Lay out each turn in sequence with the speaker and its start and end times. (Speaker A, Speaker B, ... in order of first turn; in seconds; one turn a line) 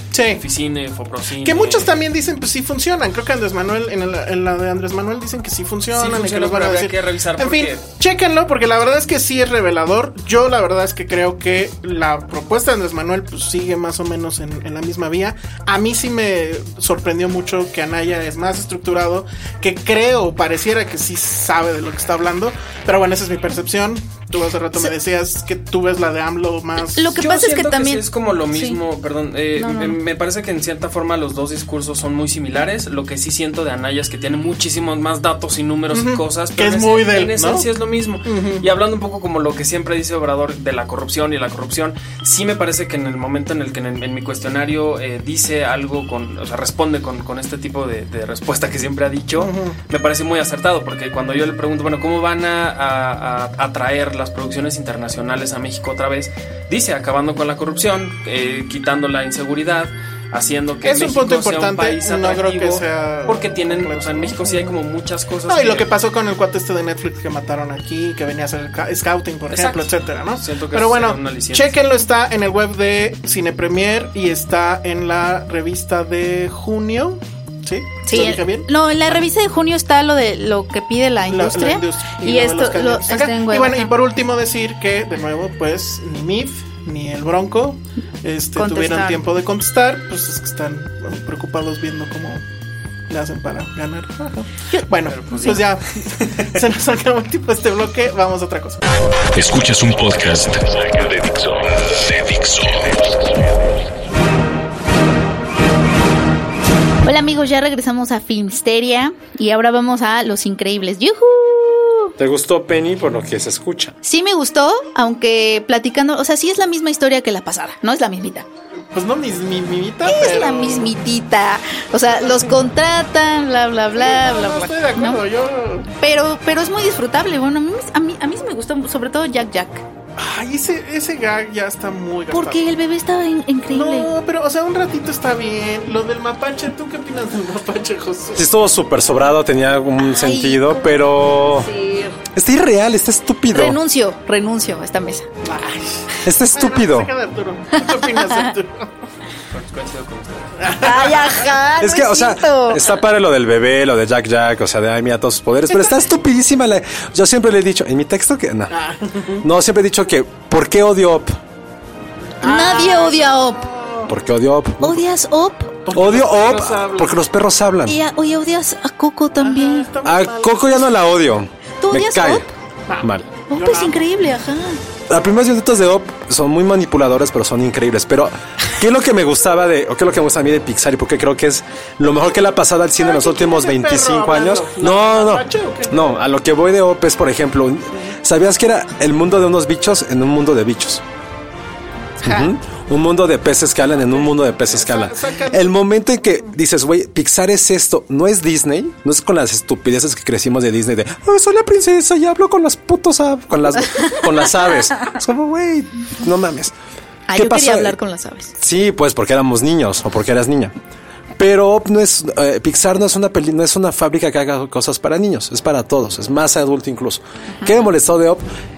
Speaker A: 0.1-0.4
Speaker B: 0.3-1.9
Speaker A: 1.4-27.2
Speaker B: 5.9-7.8
Speaker C: 26.9-28.8
Speaker B: 27.2-65.9
Speaker C: 29.6-30.0
Speaker A: 35.9-37.7
Speaker A: 38.2-38.7
Speaker A: 49.4-49.8
Speaker A: 60.8-64.7
Speaker A: 65.5-79.2
Speaker B: 69.5-71.8
Speaker C: 78.0-83.9
Speaker A: 81.3-92.4
Speaker C: 88.6-89.2
Speaker A: 93.1-98.8
Speaker C: 94.7-95.6
Speaker B: 95.2-96.3
Speaker D: 99.3-103.5
Speaker C: 107.0-112.1
Speaker E: 112.2-114.0
Speaker C: 114.0-118.5
Speaker A: 118.9-120.9
Speaker C: 120.1-125.2
Speaker A: 122.1-122.6
Speaker A: 124.0-125.9
Speaker C: 126.0-129.8
Speaker A: 130.2-132.7
Speaker C: 132.3-134.1
Speaker A: 133.7-138.5
Speaker E: 138.3-141.7
Speaker C: 140.0-142.2
Speaker E: 142.3-143.8
Speaker C: 143.5-145.3
Speaker A: 145.4-148.9
Speaker E: 146.2-147.1
Speaker C: 147.8-148.4
Speaker B: 149.5-150.7
Speaker A: 150.6-151.6
Speaker C: 150.8-152.9
Speaker E: 151.8-158.7
Speaker A: 158.7-159.5
Speaker E: 159.4-161.4
Speaker A: 162.4-164.2
Speaker C: 162.4-163.7
Speaker E: 164.1-165.0
Speaker C: 164.8-165.8
Speaker A: 165.9-167.2
Speaker E: 165.9-168.0
Speaker C: 167.9-169.9
Speaker A: 169.4-170.9
Speaker E: 170.0-172.4
Speaker C: 171.8-172.5
Speaker A: 172.9-174.0
Speaker E: 173.0-173.3
Speaker C: 173.5-174.8
Speaker E: 175.1-191.0
Speaker A: 183.0-186.2
Speaker E: 192.2-206.7
Speaker A: 194.0-195.9
Speaker C: 203.9-204.2
Speaker C: 207.3-208.5
Speaker E: 207.3-208.0
Speaker E: 208.6-210.7
Speaker E: 211.4-218.4